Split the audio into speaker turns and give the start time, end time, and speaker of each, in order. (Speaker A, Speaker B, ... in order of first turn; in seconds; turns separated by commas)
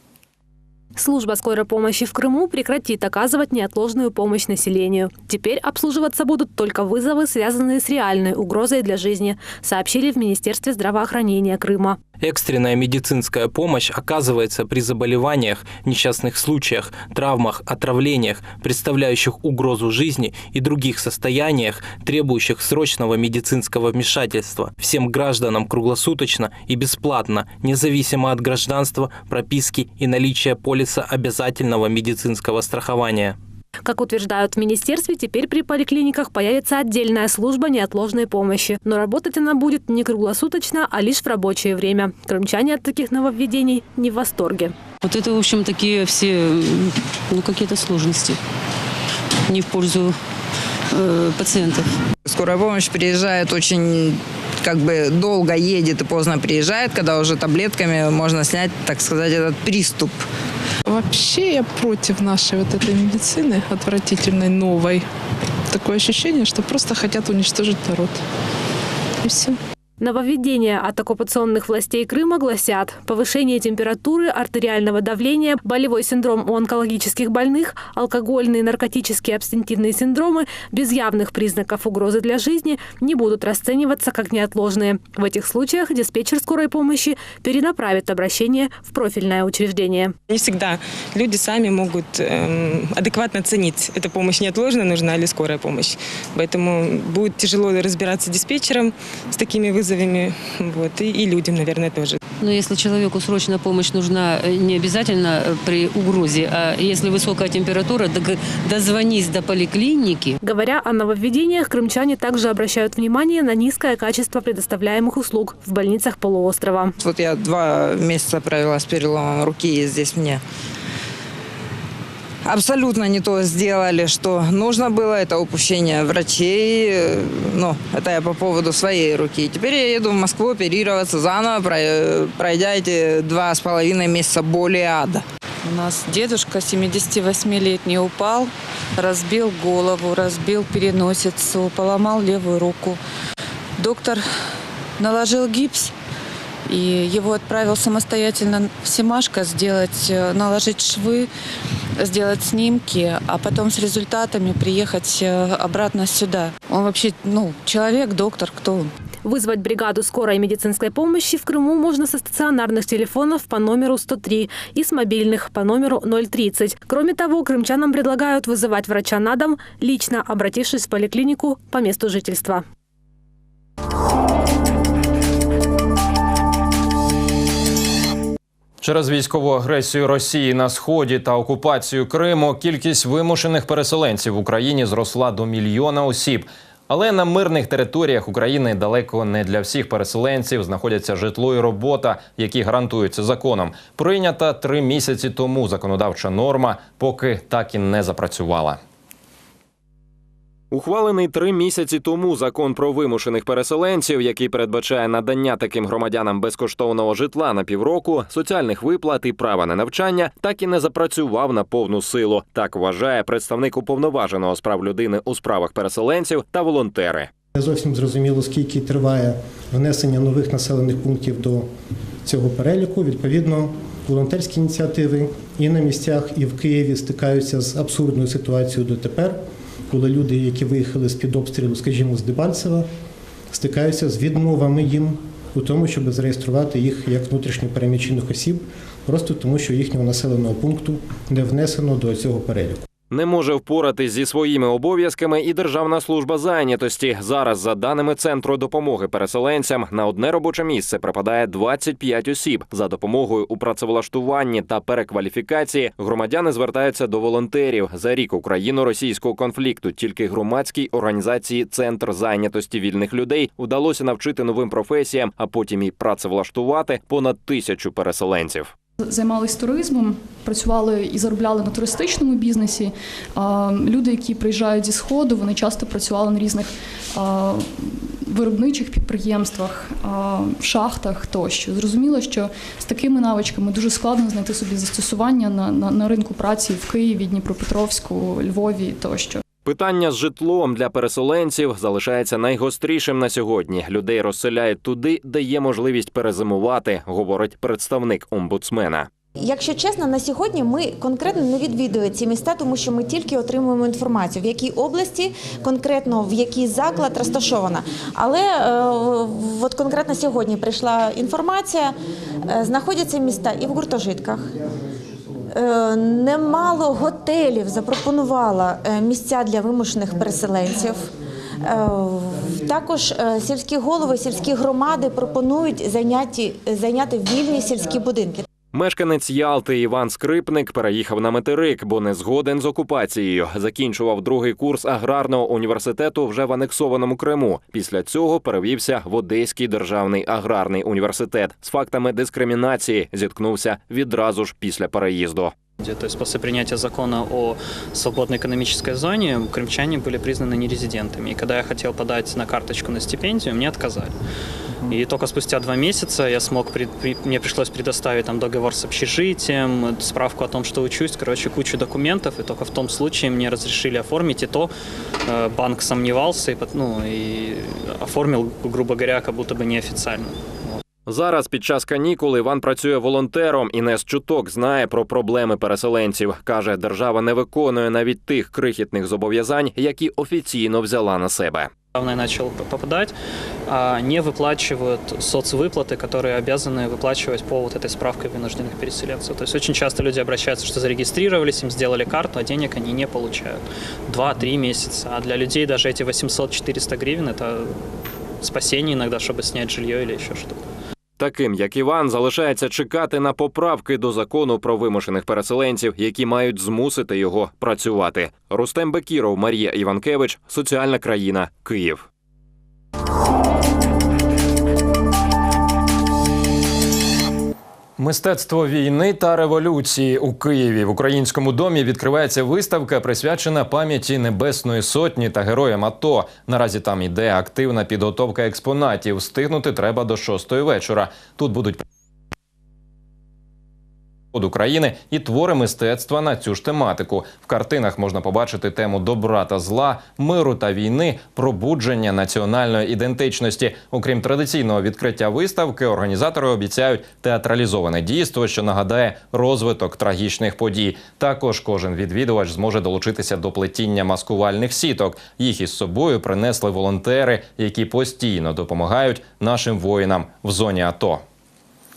Speaker A: 0.9-12.0, Speaker B: 12.2-33.4, Speaker A: 33.9-44.7, Speaker C: 45.0-48.4, Speaker C: 49.5-50.1, Speaker C: 50.9-51.9, Speaker D: 52.2-60.2, Speaker E: 60.9-65.0, Speaker E: 65.7-68.2, Speaker E: 69.2-69.5, Speaker A: 70.0-90.1, Speaker F: 90.3-102.2, Speaker C: 102.4-110.4, Speaker A: 110.4-116.9, Speaker D: 117.0-120.4, Speaker D: 122.4-135.2, Speaker G: 135.6-143.0, Speaker G: 143.8-144.2, Speaker G: 145.0-145.9, Speaker G: 146.7-151.3, Speaker G: 152.0-158.9, Speaker A: 159.2-172.6, Speaker H: 178.8-198.8, Speaker H: 200.7-217.3, Speaker I: 217.5-221.7, Speaker I: 222.2-229.4, Speaker I: 229.9-232.9, Speaker I: 233.5-242.8, Speaker H: 243.1-268.7, Speaker J: 269.1-289.4, Speaker H: 289.6-299.1, Speaker K: 299.4-311.9, Speaker K: 312.5-314.5, Speaker K: 315.5-321.1, Speaker K: 321.6-328.4, Speaker H: 328.7-345.5, Speaker L: 345.8-354.1, Speaker L: 354.9-364.7, Speaker L: 365.2-370.7, Speaker H: 371.1-381.7, Speaker L: 381.9-383.1, Speaker L: 383.7-397.8, Speaker L: 398.4-400.6, Speaker H: 401.2-412.0, Speaker H: 418.0-431.8, Speaker H: 434.3-461.2